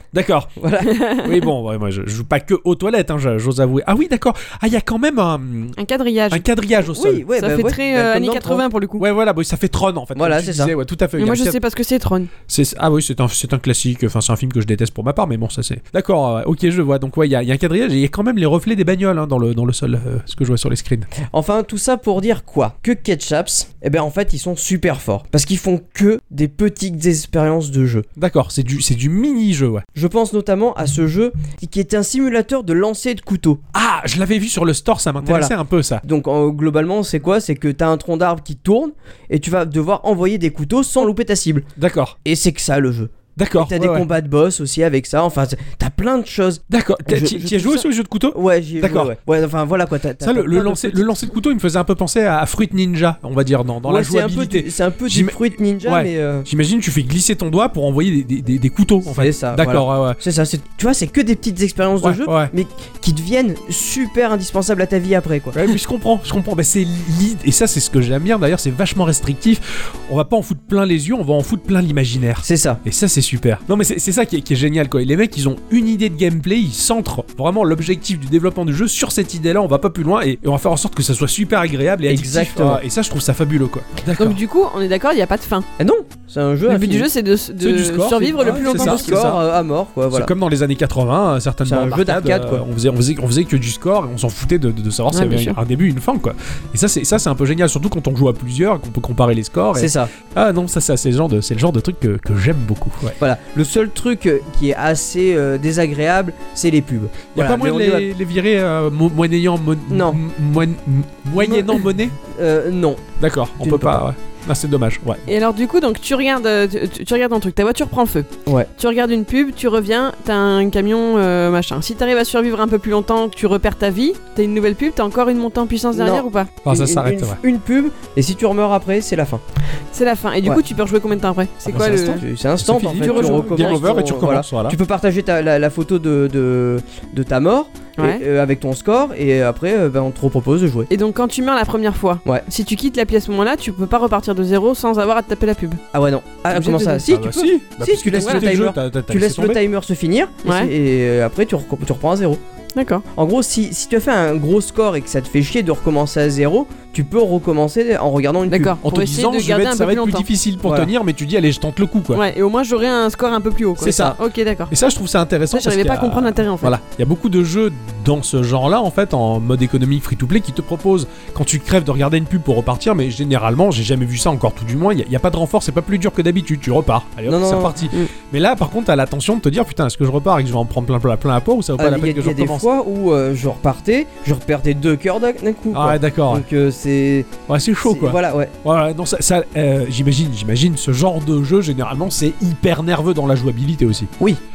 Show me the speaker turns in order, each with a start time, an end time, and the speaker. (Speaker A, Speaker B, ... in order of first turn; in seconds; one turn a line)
Speaker A: 0.1-5.8
Speaker B: 0.6-1.0
Speaker C: 0.9-1.4
Speaker C: 5.8-6.5
Speaker A: 6.3-7.3
Speaker B: 6.9-8.6
Speaker C: 7.3-9.1
Speaker A: 9.0-11.6
Speaker B: 10.2-10.7
Speaker C: 11.2-12.3
Speaker A: 12.5-21.1
Speaker B: 21.2-28.1
Speaker A: 28.2-29.9
Speaker B: 29.9-33.6
Speaker A: 33.7-36.0
Speaker B: 35.2-41.7
Speaker A: 41.8-42.2
Speaker B: 42.2-51.2
Speaker A: 43.4-44.1
Speaker A: 46.7-49.1
Speaker A: 50.2-60.2
Speaker B: 53.9-56.5
Speaker B: 59.1-65.7
Speaker A: 62.0-62.5
Speaker A: 65.5-84.4
Speaker B: 72.4-72.8
Speaker B: 82.1-82.8
Speaker C: 84.2-85.7
Speaker B: 85.8-87.1
Speaker C: 86.7-89.2
Speaker A: 87.6-89.4
Speaker B: 88.3-90.3
Speaker A: 90.1-103.2
Speaker B: 91.7-92.6
Speaker C: 95.1-95.6
Speaker B: 99.8-100.1
Speaker B: 103.2-108.1
Speaker A: 107.3-112.2
Speaker B: 109.9-110.2
Speaker B: 111.4-113.0
Speaker A: 113.2-115.3
Speaker B: 113.6-114.0
Speaker C: 115.3-126.6
Speaker B: 125.9-129.4
Speaker A: 126.6-127.4
Speaker C: 129.9-132.2
Speaker B: 131.7-140.9
Speaker A: 131.7-134.8
Speaker C: 133.0-134.0
Speaker C: 138.0-138.2
Speaker C: 140.9-145.8
Speaker B: 145.9-152.4
Speaker A: 146.5-149.6
Speaker C: 146.6-147.0
Speaker C: 148.2-148.5
Speaker C: 150.4-150.7
Speaker C: 152.8-153.1
Speaker B: 153.2-158.8
Speaker C: 158.5-160.3
Speaker A: 158.8-162.2
Speaker B: 160.6-160.9
Speaker C: 162.1-164.7
Speaker A: 163.8-164.2
Speaker B: 163.8-164.2
Speaker A: 164.7-182.7
Speaker C: 165.5-166.8
Speaker B: 177.3-177.9
Speaker B: 181.8-187.3
Speaker A: 185.7-186.5
Speaker A: 187.5-194.1
Speaker B: 187.8-188.5